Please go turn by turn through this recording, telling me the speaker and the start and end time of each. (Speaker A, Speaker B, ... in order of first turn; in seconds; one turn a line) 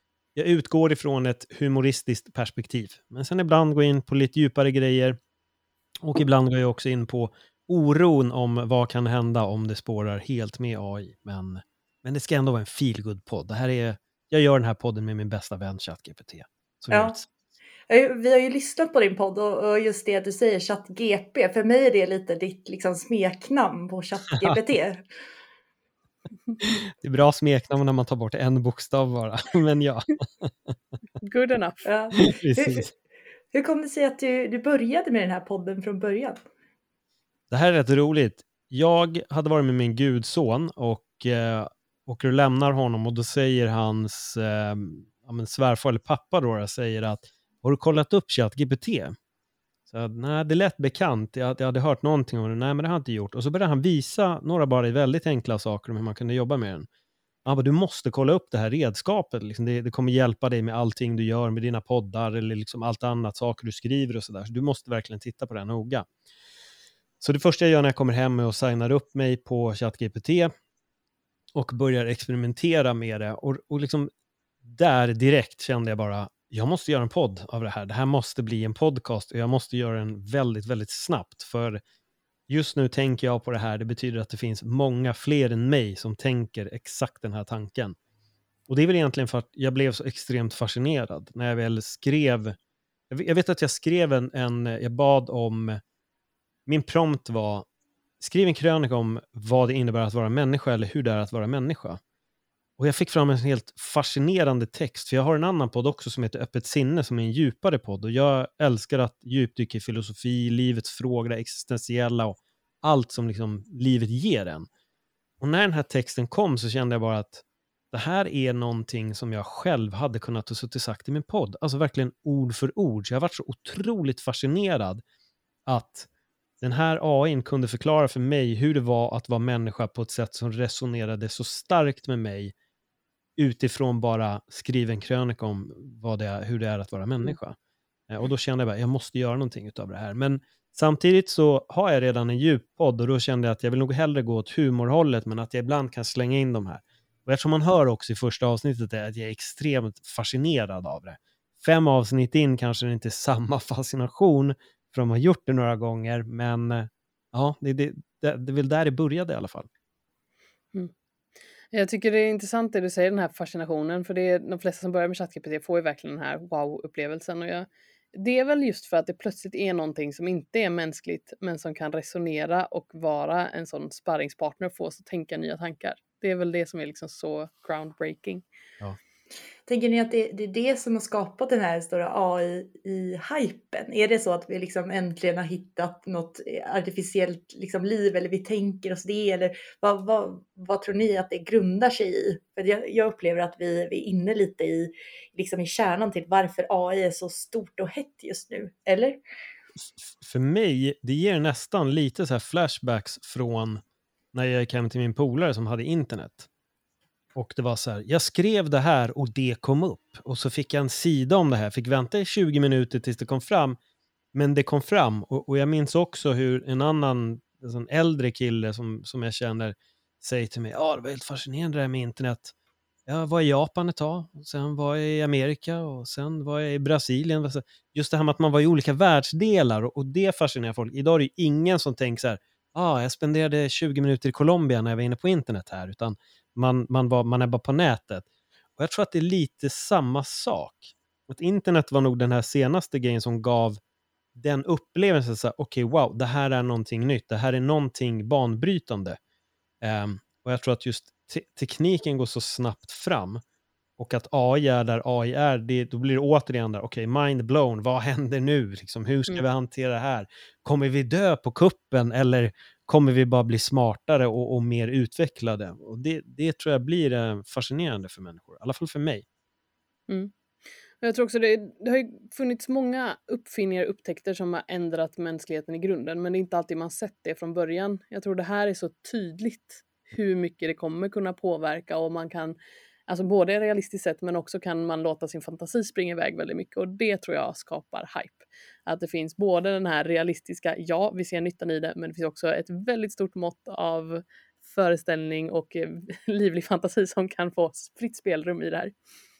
Speaker A: 0.3-5.2
Speaker A: 6.0-17.3
Speaker B: 16.9-17.2
Speaker B: 17.9-25.0
Speaker A: 26.6-30.7
Speaker C: 31.2-31.8
Speaker B: 31.8-32.9
Speaker A: 32.2-32.9
Speaker B: 33.5-36.4
Speaker A: 37.5-49.1
Speaker A: 49.9-56.9
Speaker A: 57.4-66.1
Speaker A: 67.2-70.5
Speaker A: 71.5-74.1
Speaker A: 74.6-81.8
Speaker A: 82.5-88.0
Speaker A: 88.7-92.5
Speaker A: 93.1-95.8
Speaker A: 96.7-97.7
Speaker A: 98.2-102.0
Speaker A: 102.8-114.7
Speaker A: 115.4-125.0
Speaker A: 125.7-126.1
Speaker A: 126.6-132.5
Speaker A: 133.4-137.6
Speaker A: 138.1-159.7
Speaker C: 161.7-178.4
Speaker B: 179.7-199.2
Speaker A: 200.0-203.8
Speaker A: 204.3-206.5
Speaker A: 207.3-213.8
Speaker A: 214.3-222.5
Speaker A: 223.1-238.2
Speaker A: 238.8-243.8
Speaker A: 244.3-249.2
Speaker A: 249.8-253.4
Speaker A: 254.0-269.2
Speaker C: 271.0-282.6
Speaker C: 283.1-298.9